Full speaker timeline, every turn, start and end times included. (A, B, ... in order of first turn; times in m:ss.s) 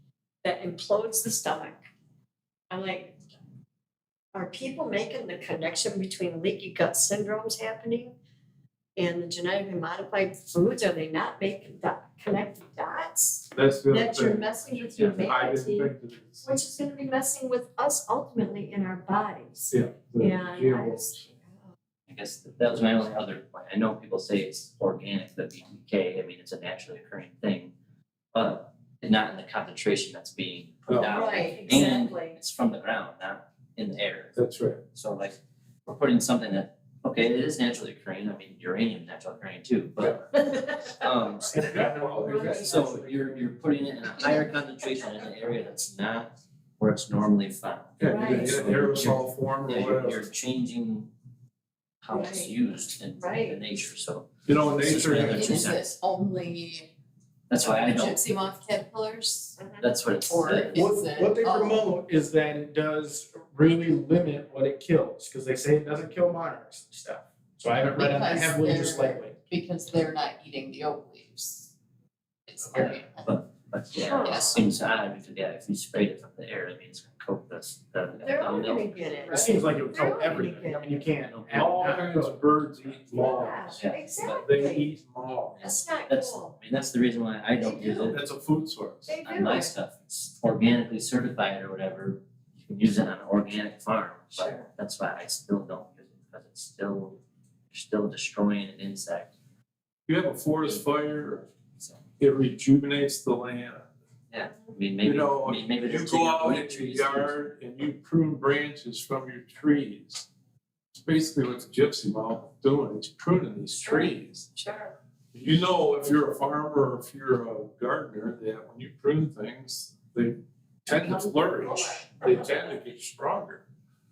0:00.4-0:01.8 A
0:02.7-0:03.1 A
0:04.3-0:08.1 A
0:09.0-0:21.5 A
0:13.5-0:16.4 B
0:19.7-0:21.2 B
0:22.1-0:27.7 C
0:28.3-0:34.3 C
0:30.9-0:31.3 B
0:31.0-0:32.4 A
0:34.3-0:34.8 B
0:34.9-0:41.7 C
0:40.5-0:40.9 A
0:41.5-0:42.6 D
0:41.6-0:43.1 B
0:42.2-0:42.6 A
0:42.4-0:51.1 C
0:48.0-0:50.2 B
0:48.0-0:48.6 A
0:52.0-0:55.9 C
0:52.1-0:52.5 A
0:53.2-0:53.6 A
0:54.4-0:55.7 B
0:55.3-0:56.9 E
0:57.5-0:58.2 C
0:57.6-0:59.6 E
0:59.6-0:59.9 A
0:59.8-1:00.9 C
1:00.2-1:01.9 E
1:00.5-1:09.3 D
1:07.9-1:11.7 E
1:12.5-1:13.0 E
1:12.7-1:19.4 C
1:14.0-1:14.5 A
1:14.2-1:14.5 E
1:18.2-1:21.0 A
1:19.3-1:22.4 D
1:21.3-1:21.7 C
1:21.5-1:23.8 B
1:23.1-1:24.9 A
1:23.8-1:24.5 C
1:24.4-1:25.6 B
1:25.6-1:28.2 C
1:25.6-1:26.5 A
1:27.6-1:28.1 A
1:28.1-1:29.2 B
1:29.1-1:29.7 A
1:29.2-1:37.2 C
1:34.4-1:34.6 A
1:37.7-1:39.3 C
1:40.1-1:41.5 B
1:42.2-1:43.9 B
1:44.3-1:47.4 C
1:45.0-1:50.2 B
1:50.9-1:54.4 B
1:53.8-1:54.9 A
1:55.3-2:03.6 B
2:01.0-2:02.2 A